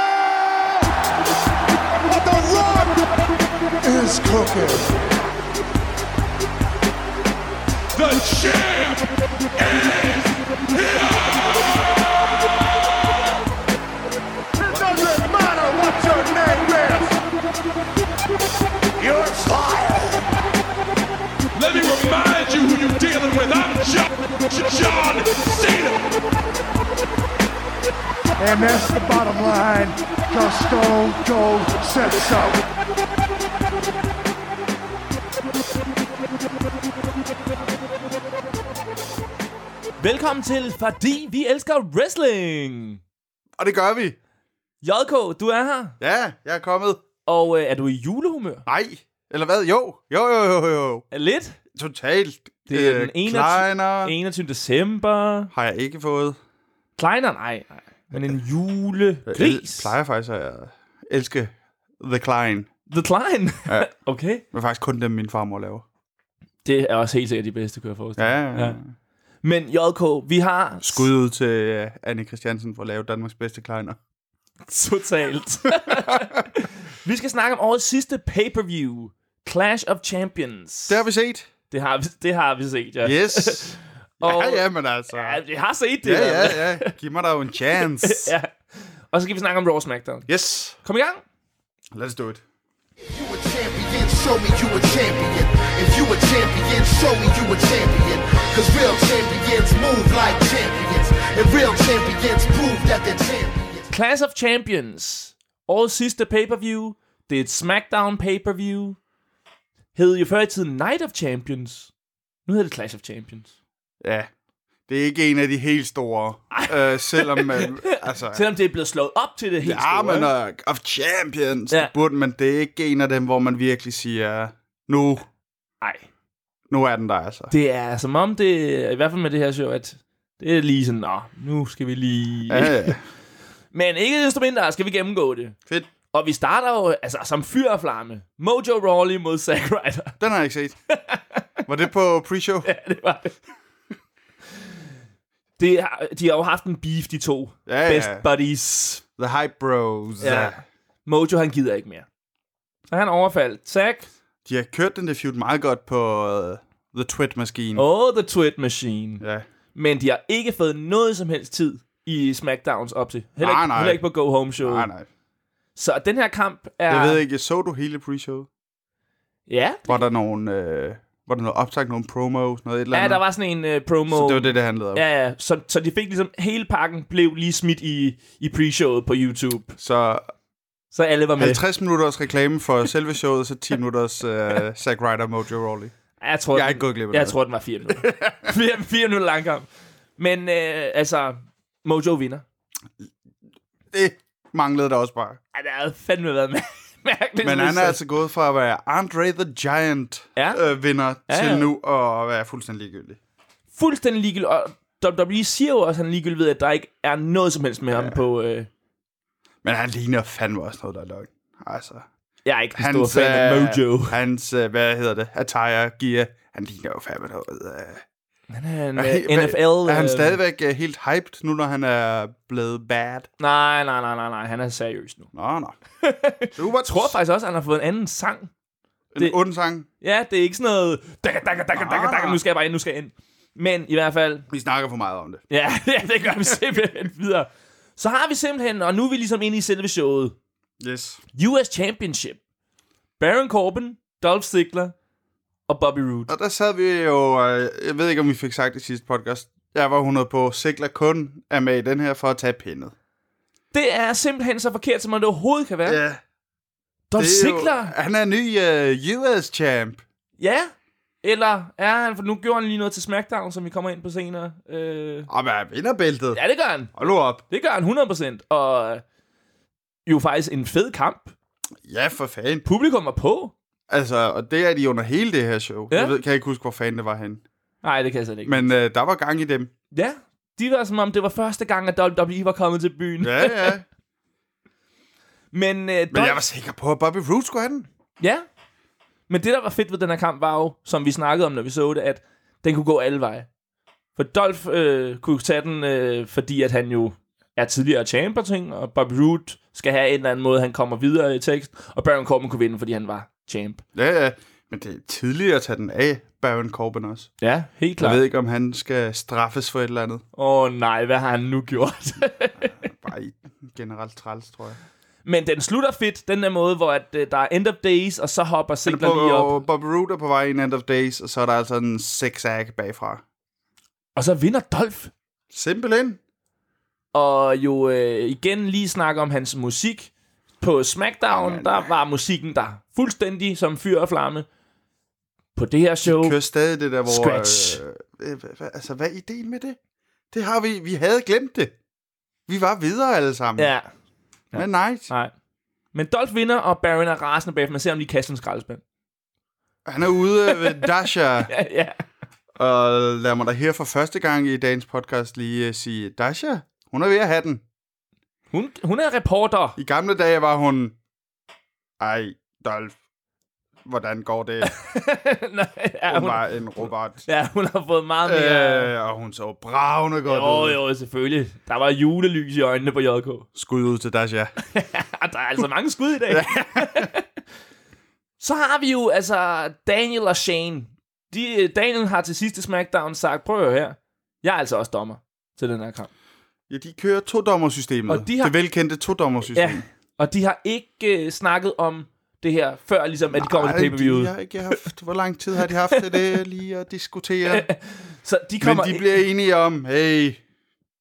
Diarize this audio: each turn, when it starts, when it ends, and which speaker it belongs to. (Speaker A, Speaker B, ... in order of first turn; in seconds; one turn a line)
Speaker A: 2.1-3.0
Speaker A: 3.8-5.0
Speaker B: 7.9-9.0
Speaker B: 9.6-11.8
Speaker A: 14.6-17.2
Speaker A: 19.0-20.3
Speaker B: 21.6-26.1
Speaker A: 28.4-32.7
Speaker C: 40.0-43.0
Speaker D: 43.6-44.2
Speaker C: 44.8-46.0
Speaker D: 46.0-47.0
Speaker C: 47.3-48.6
Speaker D: 48.7-51.0
Speaker C: 51.1-51.6
Speaker D: 51.8-54.1
Speaker C: 52.7-55.5
Speaker D: 55.5-56.4
Speaker C: 57.0-59.9
Speaker D: 59.3-62.7
Speaker C: 62.9-64.4
Speaker D: 64.5-65.8
Speaker C: 66.7-68.8
Speaker D: 68.2-68.9
Speaker C: 69.4-71.1
Speaker D: 70.8-74.0
Speaker C: 74.7-81.0
Speaker D: 75.9-76.3
Speaker D: 80.9-81.5
Speaker C: 81.7-86.9
Speaker D: 83.0-85.4
Speaker D: 86.0-88.3
Speaker C: 87.8-90.3
Speaker D: 90.3-90.8
Speaker C: 90.8-91.2
Speaker D: 91.9-92.4
Speaker E: 93.1-103.9
Speaker C: 103.9-109.0
Speaker C: 110.0-111.9
Speaker C: 112.5-113.5
Speaker D: 114.0-114.3
Speaker D: 114.9-118.5
Speaker C: 116.5-120.3
Speaker D: 119.6-125.3
Speaker C: 125.8-126.1
Speaker D: 126.7-127.5
Speaker C: 127.5-132.9
Speaker D: 132.5-133.0
Speaker C: 133.7-135.6
Speaker C: 136.1-140.2
Speaker D: 140.2-140.8
Speaker C: 140.9-141.4
Speaker D: 141.7-142.7
Speaker C: 142.6-143.3
Speaker C: 145.6-149.0
Speaker D: 147.7-148.3
Speaker D: 149.2-150.6
Speaker C: 150.2-152.1
Speaker C: 152.9-154.1
Speaker D: 154.5-157.8
Speaker C: 157.8-159.2
Speaker C: 159.8-164.9
Speaker D: 163.4-164.0
Speaker D: 164.6-165.1
Speaker C: 165.8-167.2
Speaker D: 166.9-168.5
Speaker C: 169.5-170.0
Speaker D: 169.9-173.2
Speaker C: 172.9-179.8
Speaker D: 174.1-175.0
Speaker D: 179.8-180.3
Speaker C: 180.9-181.6
Speaker D: 181.4-185.9
Speaker C: 186.2-189.7
Speaker D: 186.5-187.4
Speaker D: 187.9-188.5
Speaker C: 190.2-192.4
Speaker D: 193.9-195.4
Speaker C: 195.5-198.0
Speaker D: 197.4-203.2
Speaker C: 200.4-200.6
Speaker C: 201.3-201.7
Speaker C: 203.7-208.7
Speaker D: 209.6-212.1
Speaker C: 212.5-214.2
Speaker D: 212.8-218.0
Speaker C: 218.5-220.4
Speaker D: 218.9-223.3
Speaker C: 223.4-225.3
Speaker D: 225.3-225.8
Speaker C: 226.0-228.5
Speaker D: 226.6-227.2
Speaker D: 229.1-229.9
Speaker C: 230.0-234.5
Speaker D: 231.7-232.4
Speaker D: 234.5-235.4
Speaker C: 235.5-240.3
Speaker D: 240.8-241.2
Speaker C: 241.3-242.4
Speaker C: 243.2-244.9
Speaker C: 245.7-246.3
Speaker D: 246.3-252.9
Speaker C: 253.7-256.0
Speaker D: 255.9-256.2
Speaker C: 257.1-257.9
Speaker D: 257.2-260.0
Speaker C: 260.4-260.7
Speaker C: 261.2-265.3
Speaker D: 265.3-266.4
Speaker C: 266.3-266.9
Speaker D: 266.9-267.4
Speaker C: 267.5-269.0
Speaker C: 270.1-271.4
Speaker D: 271.9-272.7
Speaker C: 272.6-273.5
Speaker D: 273.9-277.4
Speaker C: 277.8-278.7
Speaker D: 278.4-279.7
Speaker C: 279.9-283.8
Speaker D: 283.2-283.9
Speaker C: 285.5-286.4
Speaker D: 286.1-287.9
Speaker C: 288.2-288.5
Speaker C: 289.3-293.5
Speaker C: 294.2-303.8
Speaker D: 303.9-307.3
Speaker C: 307.4-308.2
Speaker D: 308.0-310.2
Speaker C: 310.4-312.7
Speaker D: 312.6-314.8
Speaker C: 315.2-319.6
Speaker D: 318.9-323.2
Speaker C: 324.2-325.1
Speaker D: 325.5-326.2
Speaker C: 327.1-330.1
Speaker C: 330.6-334.5
Speaker D: 331.3-331.9
Speaker C: 335.6-336.4
Speaker D: 336.1-339.8
Speaker C: 337.1-337.8
Speaker D: 340.3-341.7
Speaker D: 342.5-343.7
Speaker C: 343.6-343.9
Speaker C: 344.5-345.3
Speaker D: 344.6-345.1
Speaker C: 345.9-348.8
Speaker D: 349.9-351.5
Speaker C: 350.4-350.9
Speaker C: 351.5-352.0
Speaker D: 352.6-357.6
Speaker C: 358.5-359.8
Speaker D: 359.8-361.0
Speaker D: 362.0-362.9
Speaker D: 363.9-364.7
Speaker C: 364.6-368.9
Speaker D: 366.1-367.3
Speaker D: 368.2-370.8
Speaker C: 370.3-373.5
Speaker D: 373.6-374.5
Speaker C: 374.7-377.2
Speaker D: 376.3-377.1
Speaker C: 378.4-386.1
Speaker D: 386.7-389.8
Speaker C: 388.1-388.6
Speaker C: 389.5-394.8
Speaker D: 393.3-397.7
Speaker C: 395.8-396.4
Speaker C: 397.5-399.2
Speaker D: 398.6-400.4